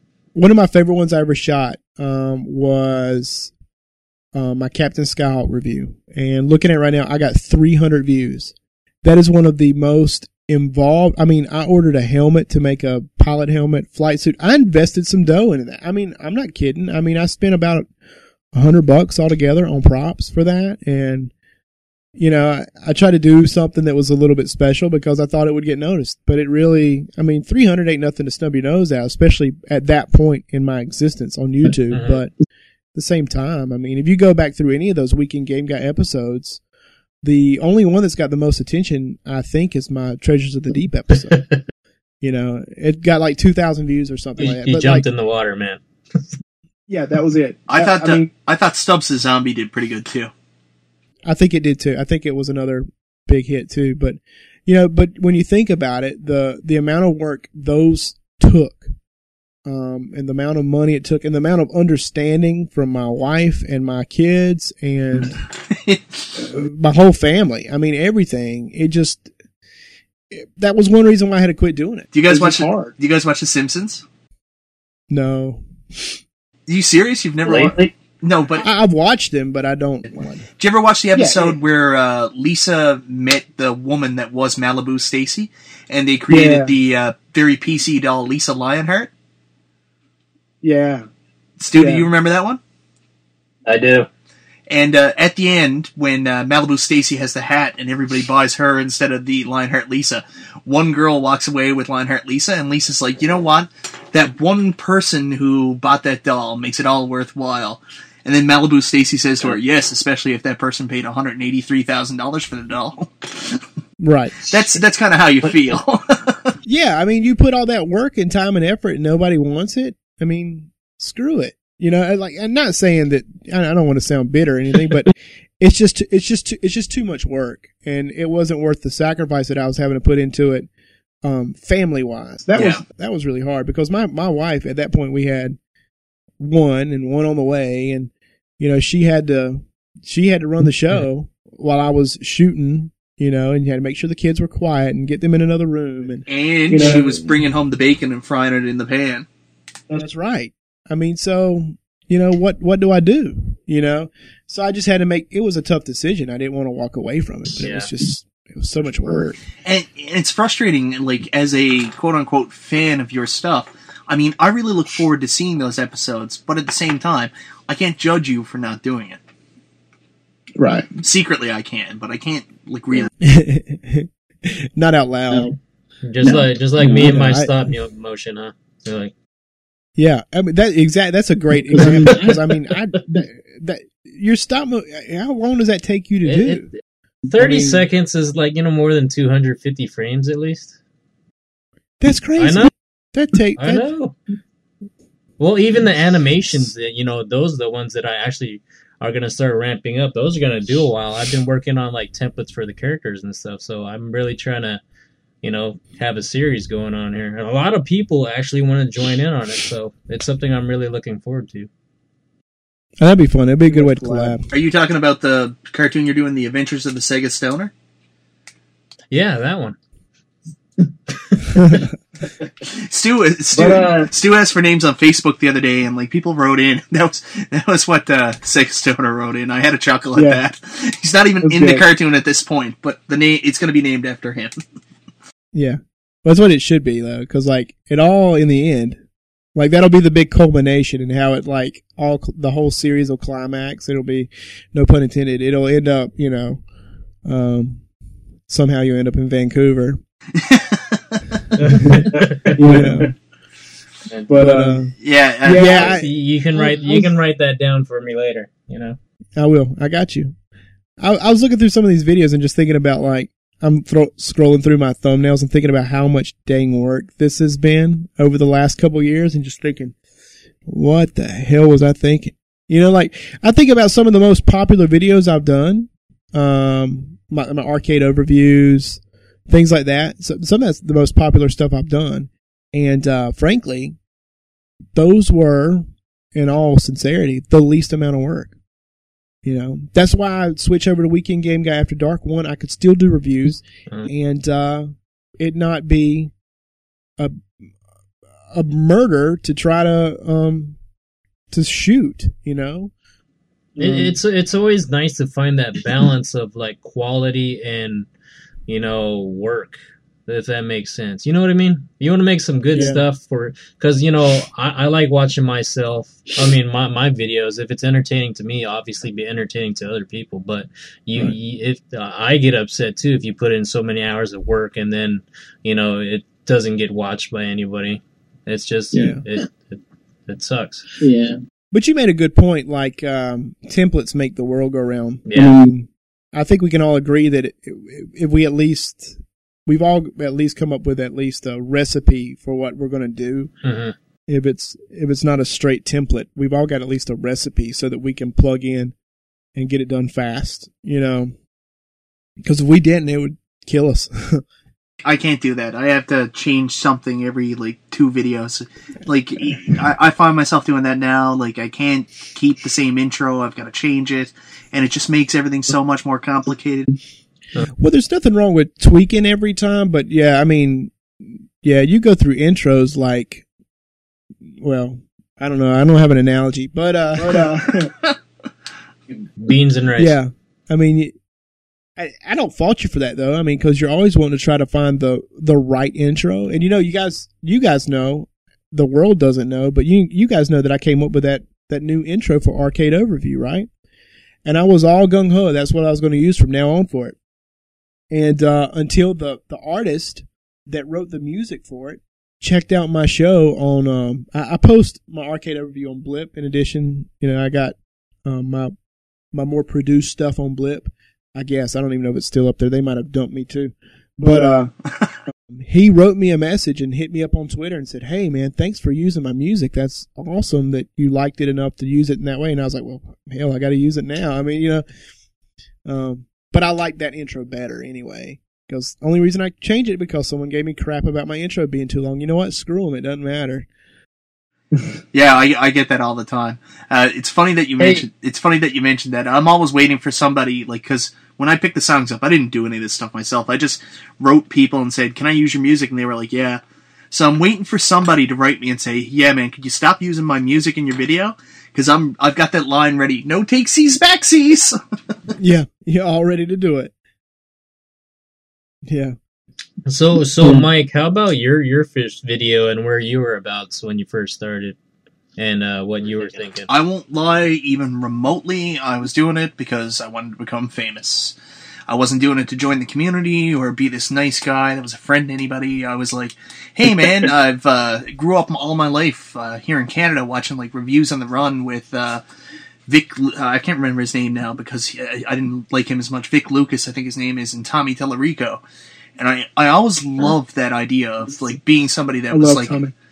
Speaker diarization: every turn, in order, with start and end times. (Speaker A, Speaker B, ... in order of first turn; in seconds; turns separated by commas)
Speaker A: 0.3-3.5, Speaker A: 4.3-17.9, Speaker A: 18.5-21.3, Speaker A: 22.1-32.3, Speaker B: 31.9-32.2, Speaker A: 32.9-36.6, Speaker A: 37.2-41.4, Speaker B: 41.3-41.6, Speaker A: 42.2-45.0, Speaker B: 44.4-45.8, Speaker C: 46.9-48.3, Speaker D: 47.7-50.3, Speaker A: 51.2-58.9, Speaker A: 59.6-65.4, Speaker D: 65.7-66.2, Speaker A: 66.5-69.3, Speaker A: 70.3-72.1, Speaker D: 72.1-74.0, Speaker C: 72.3-72.9, Speaker A: 75.1-76.2, Speaker D: 76.7-78.7, Speaker A: 78.6-80.5, Speaker D: 80.6-89.1, Speaker C: 81.1-81.6, Speaker C: 86.3-86.7, Speaker C: 90.6-91.0, Speaker D: 91.6-92.6, Speaker C: 91.8-92.0, Speaker B: 93.7-94.1, Speaker D: 94.7-113.6, Speaker A: 114.0-114.4, Speaker D: 114.5-116.5, Speaker A: 116.6-130.7, Speaker A: 131.2-135.6, Speaker C: 132.4-132.8, Speaker D: 132.5-132.8, Speaker A: 136.4-147.1, Speaker D: 146.3-149.3, Speaker C: 146.8-147.2, Speaker A: 150.0-159.4, Speaker B: 157.6-157.9, Speaker D: 159.6-169.2, Speaker C: 170.6-170.9, Speaker D: 171.0-173.1, Speaker A: 173.2-175.5, Speaker E: 175.3-175.6, Speaker B: 176.0-179.1, Speaker A: 176.8-177.5, Speaker A: 180.0-186.7, Speaker E: 181.7-182.4, Speaker B: 186.2-186.7, Speaker B: 187.3-190.7, Speaker A: 192.0-193.9, Speaker B: 192.4-192.7, Speaker B: 193.6-194.2, Speaker B: 195.4-204.8, Speaker B: 205.4-211.7, Speaker A: 213.0-214.5, Speaker C: 213.7-214.4, Speaker D: 214.5-217.7, Speaker B: 219.1-219.8, Speaker A: 221.6-221.9, Speaker D: 222.6-234.6, Speaker C: 223.6-223.9, Speaker E: 223.6-224.1, Speaker C: 231.4-231.8, Speaker A: 235.5-239.0, Speaker A: 239.5-246.6, Speaker A: 247.2-247.8, Speaker A: 248.5-250.0, Speaker D: 250.3-251.4, Speaker A: 251.6-253.1, Speaker B: 251.7-252.2, Speaker E: 251.9-253.0, Speaker C: 252.5-253.1, Speaker C: 254.3-254.9, Speaker A: 254.3-254.9, Speaker D: 255.0-255.9, Speaker C: 255.4-256.0, Speaker A: 255.5-257.1, Speaker B: 255.7-259.0, Speaker A: 259.4-260.3, Speaker A: 261.0-269.9, Speaker A: 270.7-284.0, Speaker A: 284.9-288.5, Speaker A: 289.4-296.3, Speaker A: 297.2-297.4, Speaker A: 298.5-300.8, Speaker A: 301.5-302.9, Speaker A: 303.8-304.2, Speaker B: 303.8-308.1, Speaker B: 308.7-330.9, Speaker A: 312.7-313.0, Speaker E: 328.9-329.4, Speaker E: 331.0-331.4, Speaker A: 331.7-343.5, Speaker B: 335.3-335.6, Speaker E: 335.3-335.7, Speaker B: 343.6-343.9, Speaker A: 344.3-348.9, Speaker A: 349.5-351.3, Speaker A: 352.4-354.4, Speaker D: 355.0-366.9, Speaker A: 367.8-373.4, Speaker A: 374.5-377.5, Speaker C: 377.2-377.9, Speaker D: 377.8-378.2, Speaker B: 379.4-380.1, Speaker A: 380.0-381.1, Speaker A: 382.0-393.7, Speaker A: 394.4-397.2, Speaker A: 398.1-408.7, Speaker A: 409.3-414.7, Speaker A: 415.5-424.8, Speaker A: 425.9-433.7, Speaker D: 435.1-454.8, Speaker A: 455.4-456.9, Speaker A: 458.9-459.1, Speaker B: 459.9-464.8, Speaker E: 460.4-460.6, Speaker B: 465.4-466.7, Speaker D: 466.7-471.4, Speaker D: 471.9-482.2, Speaker D: 482.9-488.6, Speaker D: 489.2-492.8, Speaker C: 492.3-492.9